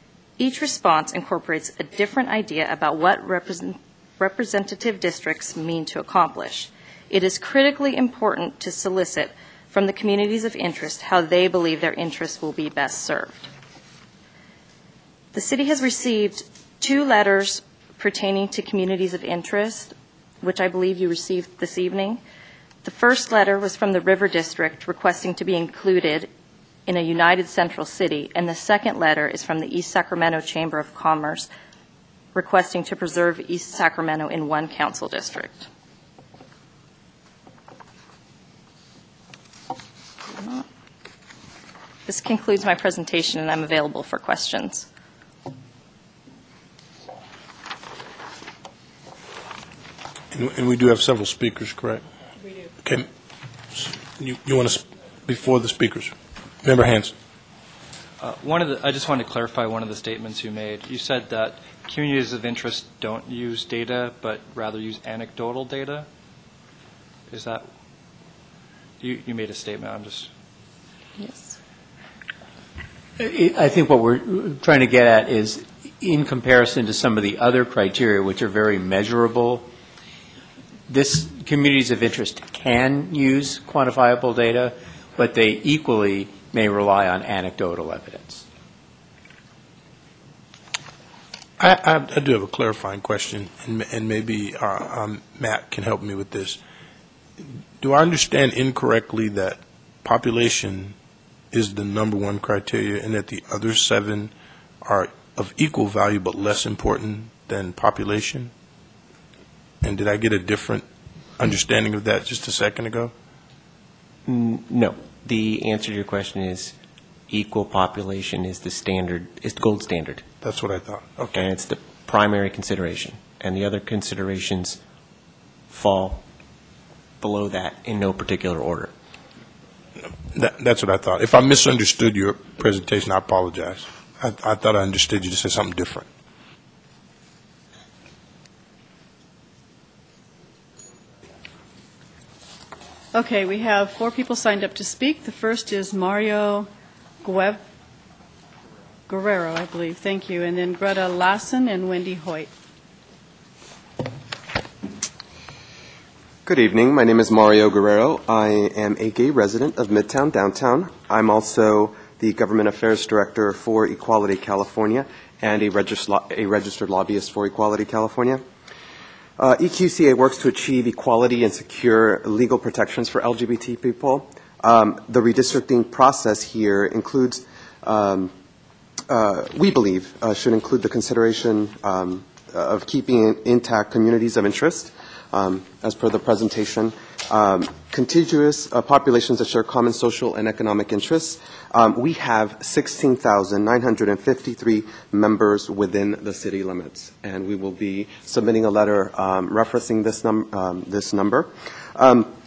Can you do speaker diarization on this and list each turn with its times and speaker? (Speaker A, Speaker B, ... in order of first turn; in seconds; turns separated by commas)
Speaker A: 0.4-13.5, Speaker A: 15.3-22.2, Speaker A: 22.8-26.3, Speaker A: 26.9-31.5, Speaker A: 32.4-35.7, Speaker A: 40.3-40.6, Speaker A: 42.1-44.9, Speaker B: 50.3-52.0, Speaker B: 53.7-57.1, Speaker C: 58.2-66.1, Speaker C: 67.3-67.7, Speaker C: 69.0-70.3, Speaker A: 71.2-71.5, Speaker D: 73.2-79.7, Speaker D: 80.9-88.5, Speaker B: 91.6-96.6, Speaker B: 97.8-101.0, Speaker B: 101.5-104.3, Speaker B: 104.8-108.5, Speaker B: 109.8-110.9, Speaker B: 111.4-113.1, Speaker E: 114.3-116.7, Speaker E: 117.3-120.2, Speaker B: 120.4-121.5, Speaker E: 121.3-124.8, Speaker E: 125.7-126.2, Speaker E: 127.2-128.9, Speaker B: 130.3-136.1, Speaker F: 143.1-146.7, Speaker F: 147.2-147.6, Speaker F: 149.1-152.5, Speaker G: 156.4-168.4, Speaker G: 169.4-178.3, Speaker G: 179.1-202.3